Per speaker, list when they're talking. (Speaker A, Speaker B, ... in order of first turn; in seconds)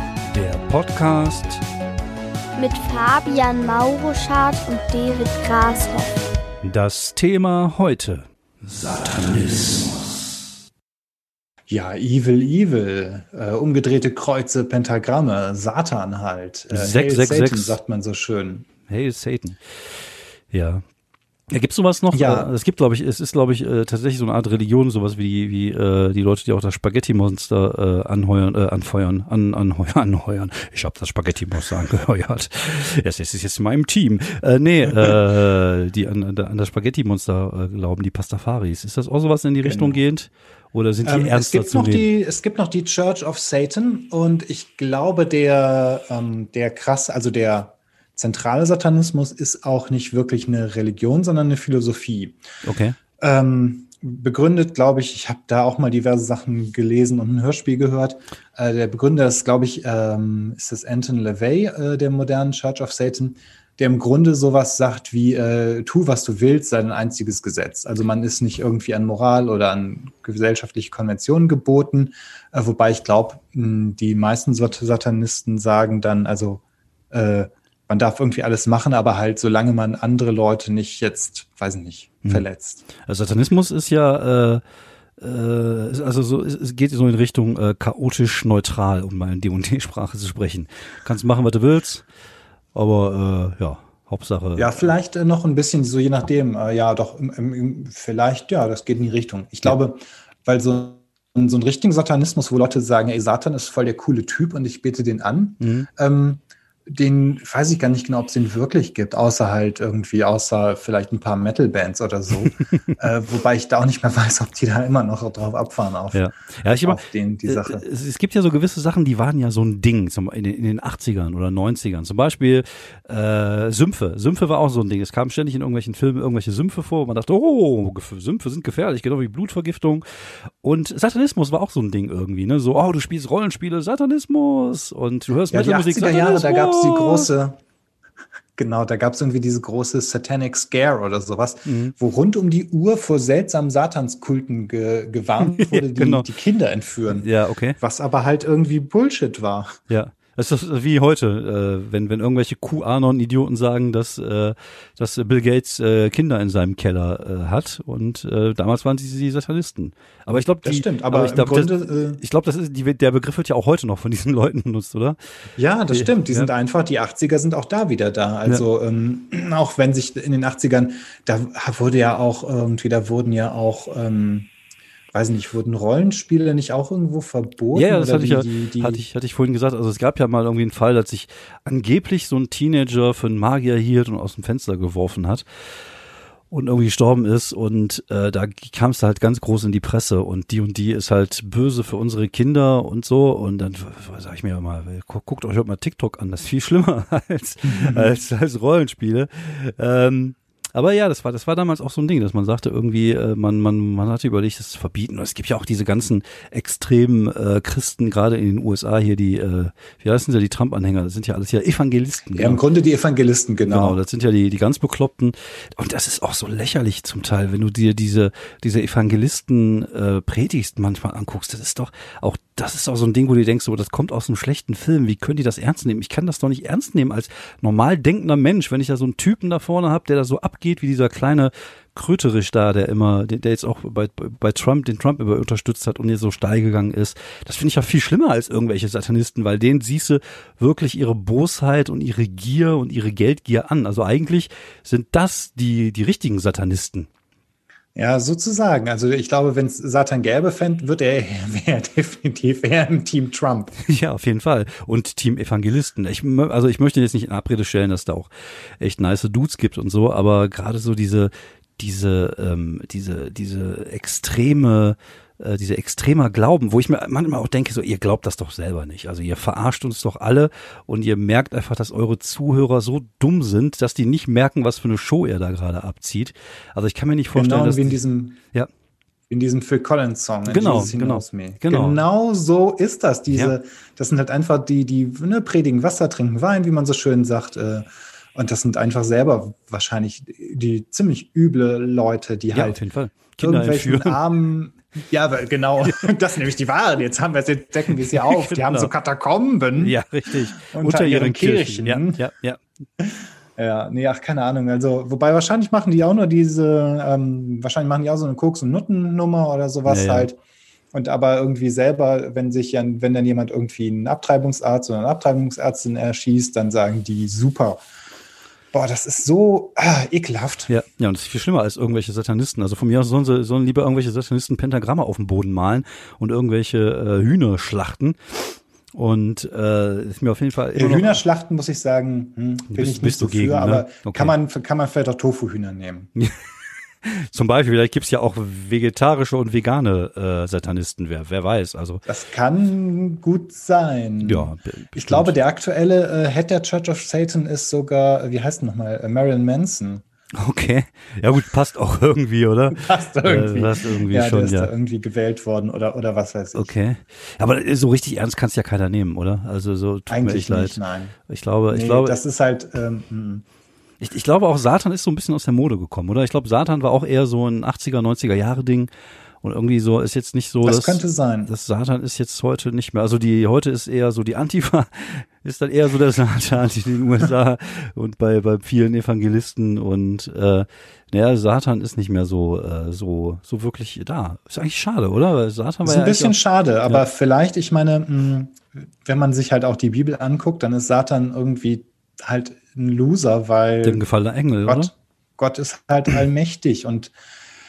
Speaker A: 0.3-1.6, 6.6-10.3, 16.7-17.8, 18.9-19.6, 20.5-20.8, 21.5-42.1, 52.6-53.0, 83.0-84.6, 85.2-92.0, 92.7-95.0, 105.6-105.9, 116.1-130.0, 130.6-137.3, 141.7-141.9, 145.4-146.3, 147.1-147.8, 149.9-165.2, 165.9-166.5, 177.7-185.4, 186.5-212.6, 213.6-247.1, 253.8-278.0, 280.5-282.0, 283.3-283.6, 292.5-294.2, 295.8-296.1, 298.1-298.9, 299.8-302.6, 309.9-310.3, 320.7-331.2, 332.7-334.3, 337.1-342.0, 344.2-345.4, 350.4-354.7, 356.5-362.2, 364.0-368.9, 369.4-387.1, 393.8-394.9
Speaker B: 2.6-6.1
Speaker C: 11.7-18.7, 22.1-22.5, 39.6-40.0, 41.0-52.4, 53.2-82.8, 94.6-116.2, 116.8-117.8, 135.5-137.6, 138.6-147.3, 147.8-149.8, 160.6-162.2, 165.6-174.5, 175.1-179.0, 197.6-198.2, 212.3-214.0, 247.9-253.7, 277.4-278.4, 279.3-292.8, 293.4-300.0, 300.6-302.2, 303.0-310.4, 310.9-317.8, 318.7-320.7, 330.8-336.1, 342.1-350.0, 352.7-356.7, 360.1-361.1, 361.7-363.4, 370.6-371.5, 385.8-394.1, 394.7-397.1